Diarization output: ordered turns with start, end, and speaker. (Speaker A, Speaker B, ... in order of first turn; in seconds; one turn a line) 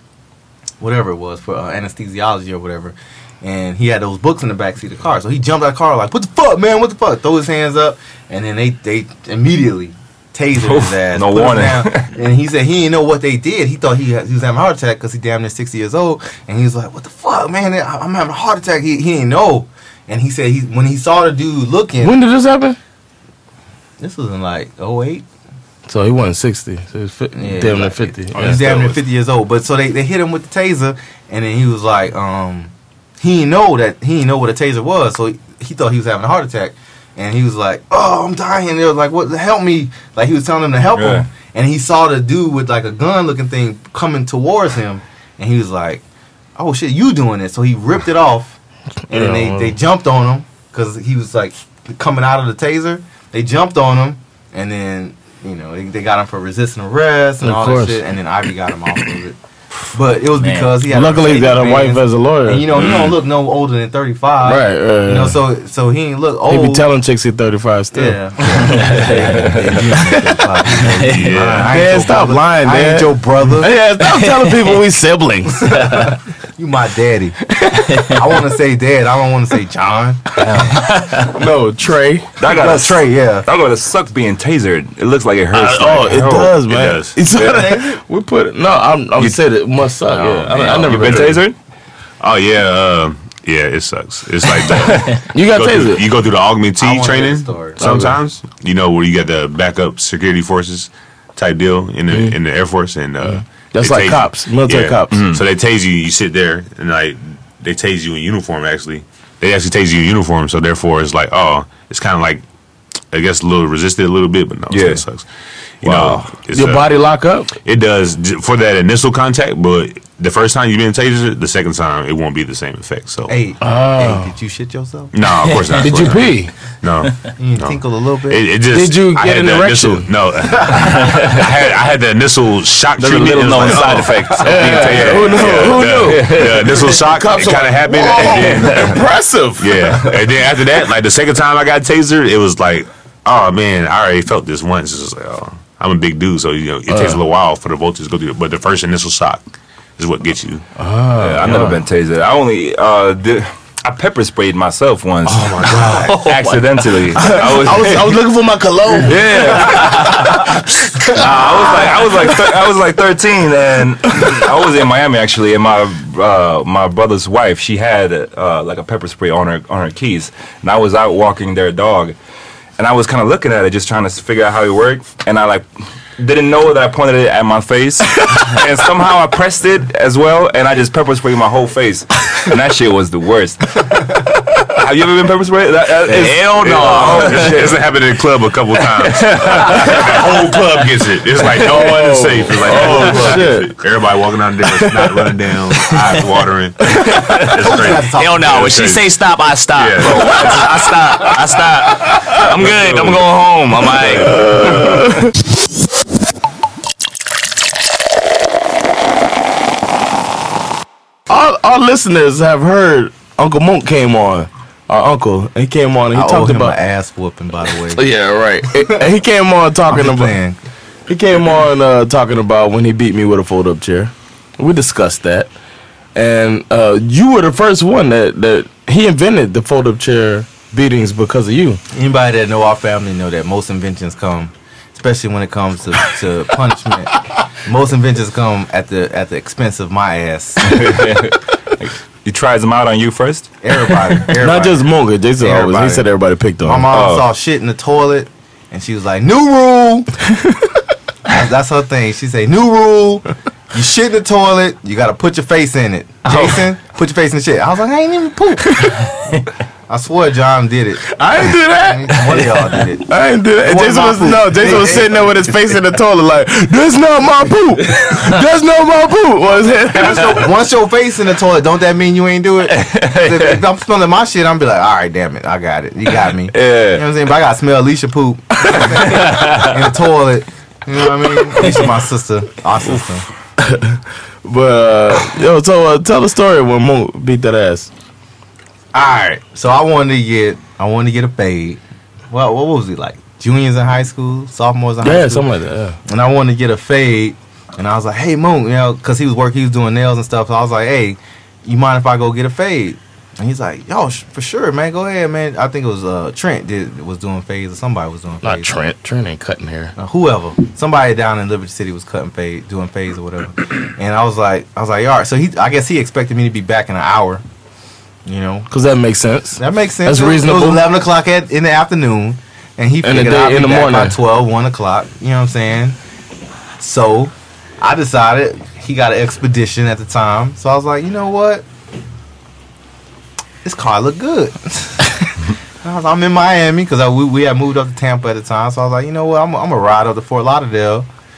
Speaker A: 0.8-22.2
Speaker B: 10.6-12.1
Speaker C: 22.0-22.8
Speaker A: 24.0-25.2
Speaker C: 25.9-28.6
Speaker A: 27.3-46.0
Speaker D: 28.4-29.0
Speaker B: 40.9-41.3
Speaker A: 46.6-48.5
Speaker C: 49.1-49.8
Speaker A: 49.1-59.4
Speaker C: 57.4-58.0
Speaker A: 59.9-66.9
Speaker E: 60.4-60.7
Speaker C: 60.9-62.8
Speaker E: 62.8-63.1
Speaker C: 64.4-65.4
Speaker C: 66.5-69.0
Speaker A: 67.9-73.7
Speaker E: 68.8-69.6
Speaker C: 70.0-70.5
Speaker E: 70.8-71.3
Speaker D: 71.1-71.7
Speaker C: 71.7-75.7
Speaker E: 74.0-74.8
Speaker A: 75.7-77.5
Speaker E: 75.7-76.1
Speaker A: 78.1-80.3
Speaker E: 80.4-81.3
Speaker C: 81.3-82.3
Speaker B: 82.4-86.3
Speaker A: 82.4-83.4
Speaker D: 85.5-87.2
Speaker C: 85.6-91.4
Speaker B: 87.3-87.6
Speaker A: 87.5-88.0
Speaker D: 90.1-91.3
Speaker B: 90.6-91.5
Speaker D: 92.2-112.4
Speaker B: 94.8-95.1
Speaker C: 95.2-96.0
Speaker A: 96.8-97.8
Speaker C: 97.8-98.2
Speaker C: 102.1-102.4
Speaker C: 103.2-105.2
Speaker B: 105.1-105.4
Speaker D: 113.1-115.3
Speaker B: 114.7-115.0
Speaker D: 115.8-116.9
Speaker B: 115.8-116.2
Speaker C: 115.9-117.5
Speaker D: 117.6-123.3
Speaker A: 123.3-125.1
Speaker C: 123.6-124.3
Speaker D: 125.1-139.0
Speaker C: 125.8-126.5
Speaker A: 127.4-128.4
Speaker C: 128.7-130.1
Speaker B: 130.8-131.3
Speaker B: 133.0-136.8
Speaker C: 134.4-139.8
Speaker B: 138.2-139.0
Speaker D: 139.6-149.4
Speaker C: 146.9-147.2
Speaker D: 150.0-150.6
Speaker C: 150.8-151.8
Speaker B: 151.2-158.4
Speaker D: 155.3-156.1
Speaker E: 155.7-157.4
Speaker C: 157.2-159.6
Speaker B: 159.0-160.5
Speaker E: 159.6-160.4
Speaker B: 161.1-172.2
Speaker B: 172.8-183.9
Speaker B: 184.6-187.9
Speaker E: 186.1-187.6
Speaker D: 186.6-199.1
Speaker B: 189.1-190.0
Speaker E: 189.9-190.3
Speaker C: 191.6-193.7
Speaker B: 192.7-193.4
Speaker B: 197.1-197.4
Speaker A: 197.5-198.6
Speaker E: 198.2-204.4
Speaker D: 199.7-200.4
Speaker B: 200.0-200.7
Speaker B: 202.4-203.3
Speaker B: 203.9-205.3
Speaker C: 204.1-205.3
Speaker C: 211.3-216.8
Speaker A: 216.1-218.1
Speaker C: 217.9-220.4
Speaker A: 219.9-220.6
Speaker C: 221.1-225.5
Speaker C: 226.1-231.8
Speaker A: 231.9-240.9
Speaker B: 240.6-243.5
Speaker A: 243.6-244.9
Speaker C: 244.4-246.9
Speaker A: 245.4-246.1
Speaker A: 246.6-250.1
Speaker B: 246.9-247.2
Speaker A: 251.3-259.1
Speaker A: 259.9-261.2
Speaker C: 261.1-270.4
Speaker A: 261.7-265.6
Speaker A: 270.0-283.2
Speaker B: 272.7-273.6
Speaker B: 276.5-277.1
Speaker B: 278.8-279.7
Speaker C: 283.6-287.9
Speaker A: 288.9-291.8
Speaker A: 292.3-295.5
Speaker C: 295.0-296.0
Speaker A: 296.1-308.8
Speaker C: 308.4-309.9
Speaker A: 310.0-317.4
Speaker A: 318.2-318.7
Speaker C: 318.7-320.8
Speaker A: 319.6-326.0
Speaker C: 323.0-324.1
Speaker A: 326.8-331.6
Speaker A: 333.6-341.1